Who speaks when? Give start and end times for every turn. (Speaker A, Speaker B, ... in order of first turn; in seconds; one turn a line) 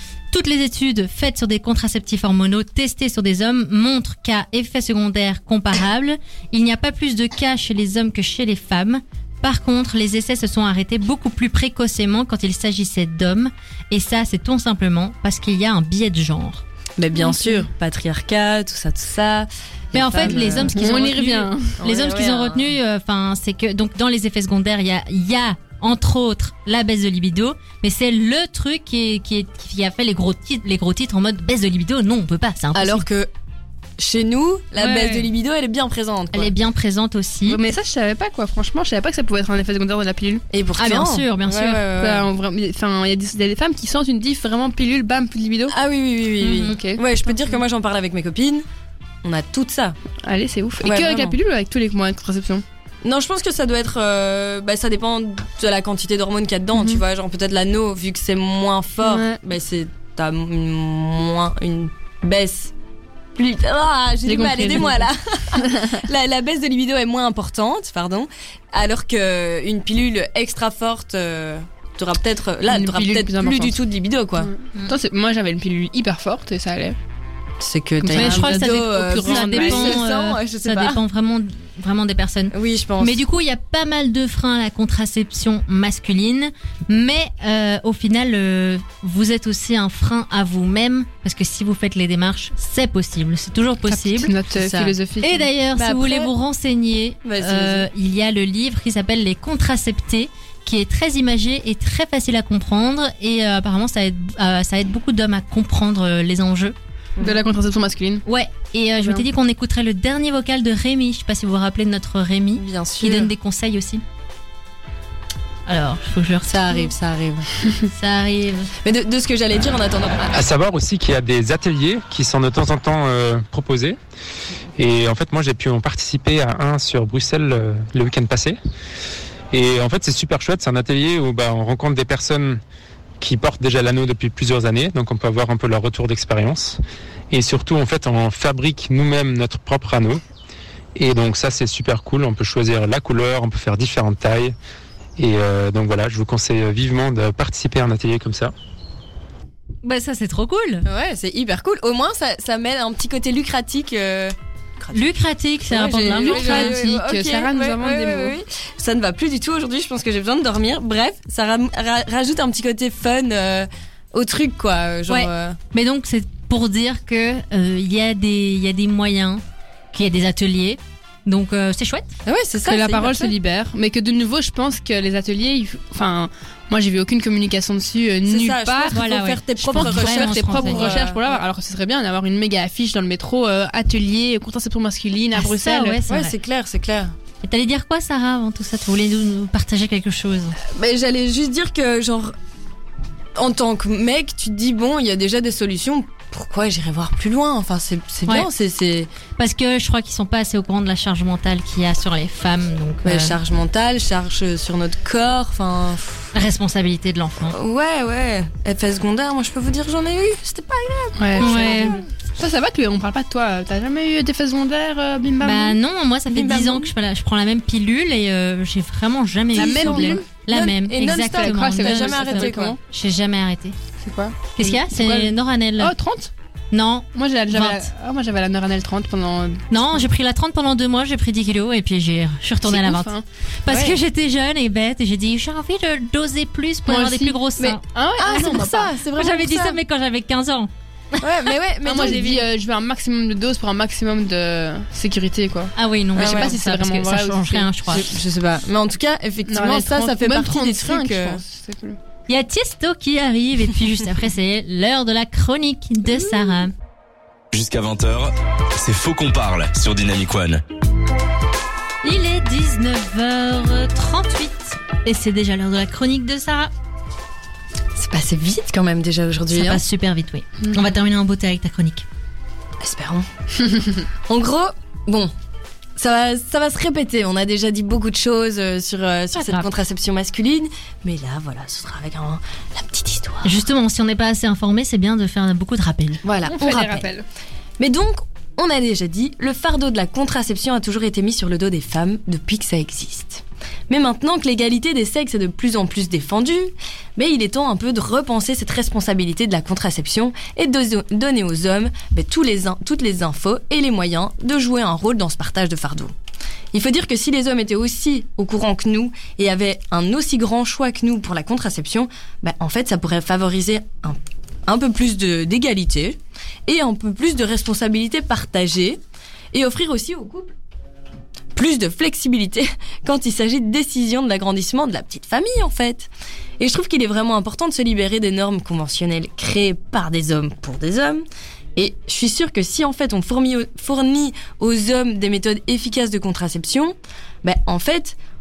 Speaker A: 0.3-16.6
Speaker B: 17.0-20.9
Speaker A: 17.2-17.7
Speaker A: 19.9-33.1
Speaker C: 20.2-21.8
Speaker B: 21.8-22.7
Speaker B: 32.8-33.3
Speaker B: 34.0-36.5
Speaker C: 34.8-35.3
Speaker A: 36.3-37.6
Speaker C: 37.5-40.4
Speaker B: 40.5-42.3
Speaker A: 40.8-41.8
Speaker C: 42.0-45.8
Speaker B: 45.7-48.6
Speaker A: 46.4-46.8
Speaker C: 46.7-47.3
Speaker B: 49.2-50.0
Speaker C: 50.2-52.6
Speaker B: 50.8-51.4
Speaker B: 53.0-62.7
Speaker C: 56.8-57.0
Speaker C: 59.0-59.4
Speaker B: 63.4-74.5
Speaker C: 64.3-66.0
Speaker C: 72.7-73.8
Speaker C: 74.4-77.0
Speaker B: 77.6-81.0
Speaker C: 78.0-80.0
Speaker A: 78.1-94.3
Speaker B: 82.5-83.2
Speaker C: 93.9-95.5
Speaker B: 94.6-95.0
Speaker A: 95.2-106.8
Speaker B: 95.8-96.3
Speaker B: 97.2-97.9
Speaker C: 107.2-108.2
Speaker A: 108.2-114.0
Speaker B: 112.6-113.3
Speaker A: 115.7-116.9
Speaker B: 116.5-117.5
Speaker A: 117.9-118.7
Speaker B: 118.8-120.4
Speaker D: 120.3-124.0
Speaker D: 124.8-128.6
Speaker D: 129.5-132.6
Speaker D: 133.2-136.8
Speaker D: 137.3-140.2
Speaker D: 140.9-144.6
Speaker D: 145.2-148.5
Speaker A: 149.8-150.9
Speaker B: 150.8-155.0
Speaker A: 154.9-156.8
Speaker B: 155.7-165.6
Speaker C: 155.7-158.3
Speaker A: 165.1-169.4
Speaker A: 169.9-172.1
Speaker B: 172.3-173.3
Speaker C: 172.7-179.0
Speaker B: 178.3-181.4
Speaker A: 178.9-181.0
Speaker C: 179.7-186.1
Speaker A: 185.3-186.3
Speaker B: 186.1-187.1
Speaker A: 187.4-190.6
Speaker B: 190.6-192.3
Speaker B: 193.4-199.1
Speaker A: 199.4-203.4
Speaker B: 203.1-206.3
Speaker A: 206.3-207.6
Speaker B: 207.5-212.1
Speaker C: 211.2-215.8
Speaker A: 211.4-212.0
Speaker A: 215.4-223.8
Speaker B: 216.3-216.9
Speaker C: 219.5-220.3
Speaker B: 219.5-222.8
Speaker C: 221.0-222.8
Speaker C: 224.0-226.3
Speaker A: 224.6-225.9
Speaker A: 226.7-227.9
Speaker C: 227.2-229.6
Speaker A: 229.7-241.2
Speaker C: 232.7-233.2
Speaker B: 233.7-234.0
Speaker C: 236.9-238.9
Speaker B: 238.2-239.8
Speaker B: 241.2-242.4
Speaker C: 241.8-247.7
Speaker A: 245.8-248.1
Speaker B: 246.2-246.6
Speaker B: 247.9-251.4
Speaker C: 249.5-252.0
Speaker A: 252.3-256.7
Speaker E: 257.5-260.6
Speaker A: 262.0-266.7
Speaker B: 268.0-269.8
Speaker A: 269.5-272.1
Speaker B: 272.8-273.3
Speaker B: 274.3-275.3
Speaker B: 276.0-283.6
Speaker A: 279.4-279.7
Speaker A: 283.4-286.2
Speaker B: 286.2-287.1
Speaker C: 286.5-287.2
Speaker B: 287.8-306.1
Speaker B: 306.7-319.0
Speaker B: 319.5-320.5
Speaker B: 321.6-331.2
Speaker B: 331.8-338.2